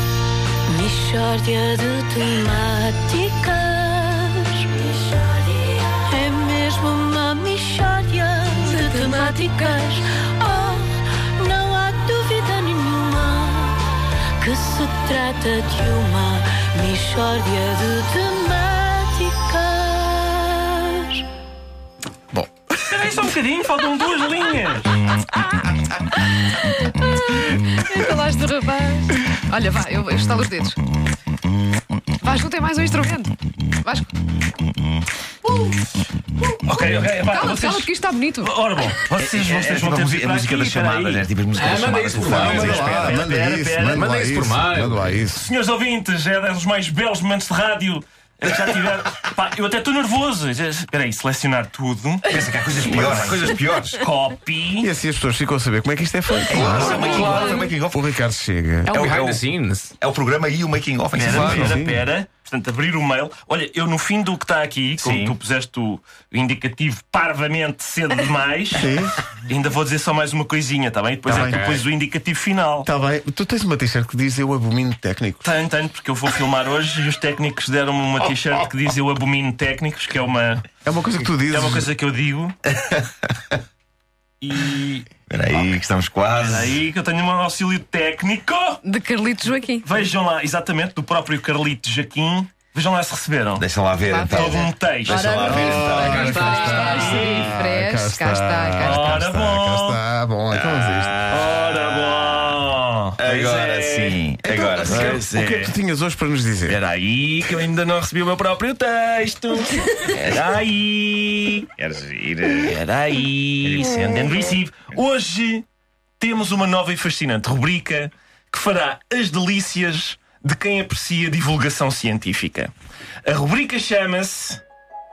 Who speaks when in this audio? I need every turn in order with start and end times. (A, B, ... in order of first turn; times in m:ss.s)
0:00.7-0:13.8 A
0:08.6-0:09.8 B
0:14.4-0:21.3 A
0:22.8-0:25.1 C
0:27.0-0:30.8 B
0:32.2-0:34.2 B
0:35.5-0:35.8 B
0:36.6-0:44.2 C
0:37.2-0:38.5 B
0:39.2-0:43.2 D
0:41.6-0:42.8 E
0:42.2-0:45.5 F
0:43.9-0:45.3 E
0:45.4-0:54.9 C
0:52.3-0:54.0 D
0:54.8-0:58.9 F
0:56.5-0:58.0 D
0:56.5-0:57.7 C
0:57.0-0:57.6 E
0:58.8-0:59.9 E
0:58.9-0:59.4 D
1:00.0-1:01.8 D
1:01.1-1:08.9 C
1:01.2-1:01.8 E
1:01.4-1:02.0 F
1:05.0-1:05.4 D
1:08.8-1:09.2 F
1:09.5-1:12.9 C
1:11.3-1:11.7 F
1:12.8-1:15.4 F
1:15.4-1:20.7 C
1:20.8-1:21.9 F
1:21.5-1:22.6 C
1:24.4-1:25.1 C
1:25.3-1:26.8 D
1:26.4-1:28.8 C
1:28.8-1:29.9 B
1:29.8-1:33.6 C
1:33.6-1:36.4 D
1:34.0-1:39.2 B
1:34.3-1:35.4 C
1:35.4-1:41.2 F
1:36.2-1:37.4 E
1:38.8-1:40.0 C
1:40.5-1:42.6 D
1:41.3-1:45.8 C
1:43.2-1:45.2 D
1:44.9-1:46.8 F
1:46.7-1:51.7 C
1:50.2-1:50.5 D
1:51.8-1:52.8 D
1:52.6-1:55.6 C
1:53.6-1:54.6 D
1:56.2-2:02.7 C
2:03.2-2:04.6 C